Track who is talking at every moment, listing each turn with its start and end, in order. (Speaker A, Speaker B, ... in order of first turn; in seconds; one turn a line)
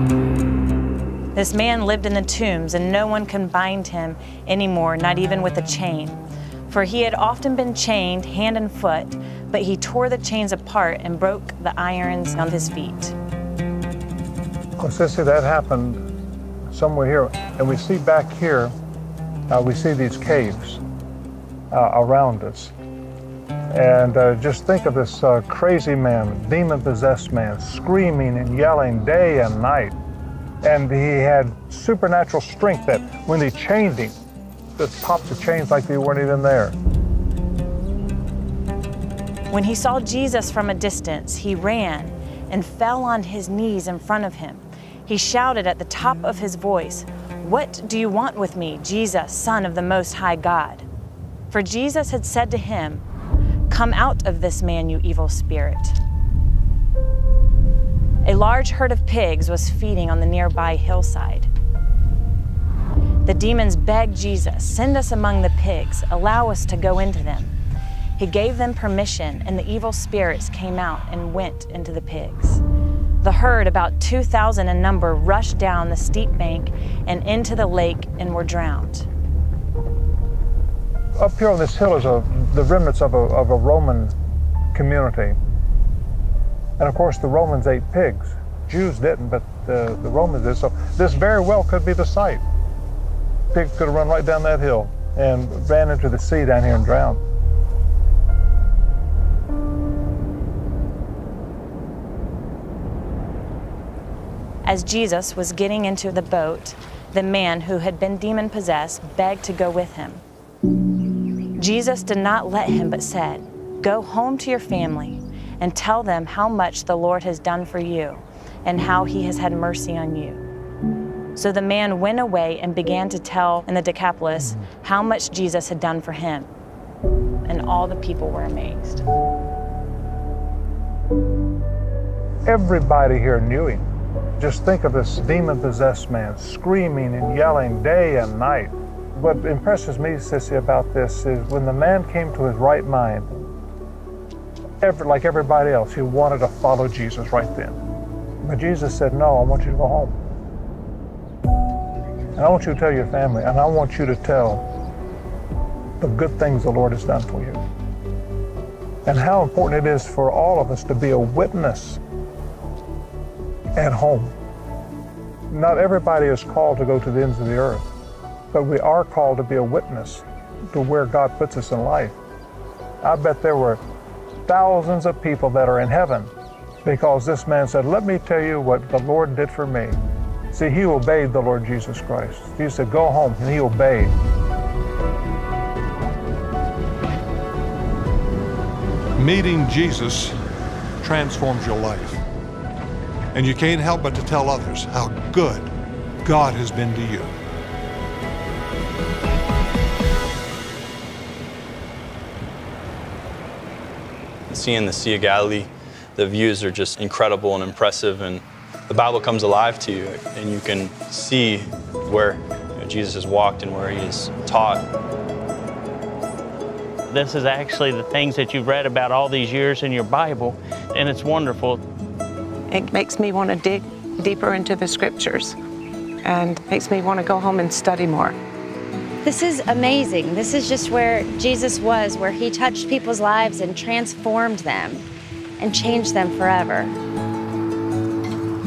Speaker A: 1.3-13.1
Speaker B: 14.8-16.0
Speaker B: 16.7-18.7
Speaker B: 19.5-20.8
Speaker B: 21.7-22.7
Speaker B: 23.7-29.9
Speaker B: 30.6-34.2
Speaker B: 34.8-36.8
Speaker A: 39.5-50.9
Speaker A: 51.5-53.0
Speaker A: 53.7-56.0
Speaker A: 58.2-61.5
Speaker A: 63.2-67.5
Speaker A: 68.2-72.6
Speaker A: 73.2-79.1
Speaker B: 81.2-84.2
Speaker B: 84.7-85.4
Speaker B: 86.8-92.4
Speaker B: 93.5-97.2
Speaker A: 104.6-110.2
Speaker A: 111.5-120.4
Speaker A: 121.3-126.5
Speaker A: 127.4-129.0
Speaker B: 132.4-133.8
Speaker B: 134.4-143.5
Speaker B: 144.8-147.8
Speaker B: 148.4-150.2
Speaker B: 152.3-154.7
Speaker B: 156.0-157.6
Speaker B: 159.0-162.0
Speaker B: 163.7-164.3
Speaker B: 165.5-167.9
Speaker B: 168.5-172.2
Speaker B: 173.0-173.8
Speaker B: 174.4-176.3
Speaker B: 176.8-180.0
Speaker B: 180.5-184.2
Speaker C: 189.2-190.3
Speaker C: 191.0-192.2
Speaker C: 193.3-195.7
Speaker C: 196.2-197.4
Speaker D: 204.5-214.9
Speaker E: 217.1-221.8
Speaker F: 222.7-225.6
Speaker F: 226.2-228.3
Speaker G: 229.2-235.1
Speaker G: 235.6-236.9